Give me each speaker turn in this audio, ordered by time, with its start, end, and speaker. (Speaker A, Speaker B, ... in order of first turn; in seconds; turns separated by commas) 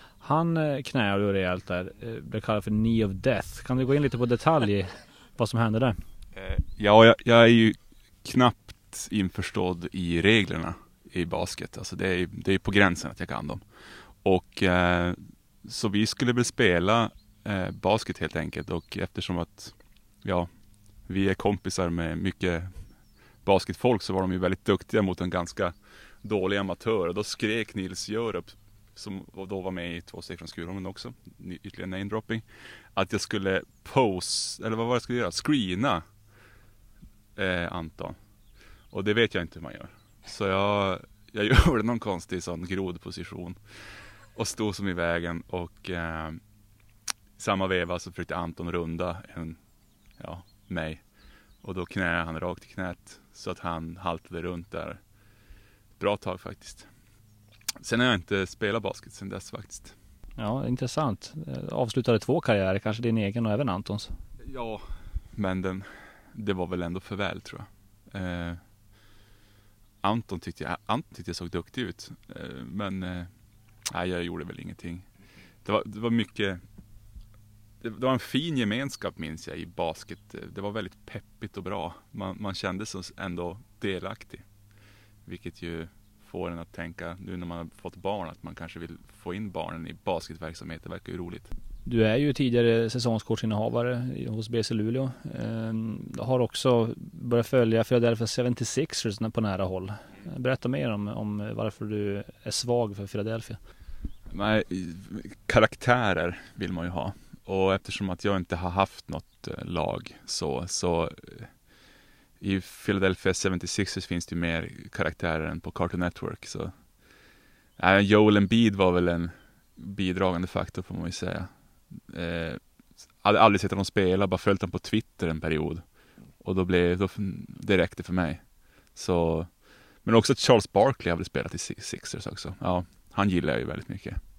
Speaker A: 0.2-6.0, Speaker B: 6.3-13.6, Speaker B: 14.2-20.5, Speaker B: 21.1-22.7, Speaker B: 23.4-32.4, Speaker B: 32.9-36.0, Speaker B: 37.4-38.1, Speaker B: 38.9-43.6, Speaker B: 44.3-46.4, Speaker B: 47.4-49.6, Speaker B: 50.2-51.0, Speaker B: 51.6-55.0, Speaker B: 56.0-56.9, Speaker B: 57.8-59.9, Speaker A: 60.4-64.1, Speaker B: 64.4-68.6, Speaker B: 70.0-73.3, Speaker B: 73.9-75.0, Speaker B: 75.6-76.6, Speaker B: 77.8-84.4, Speaker B: 85.2-91.5, Speaker A: 91.8-103.6, Speaker B: 104.3-111.5, Speaker B: 112.4-116.7, Speaker B: 117.8-122.6, Speaker B: 123.2-125.8, Speaker B: 126.4-128.4, Speaker B: 128.9-129.5, Speaker B: 130.0-134.2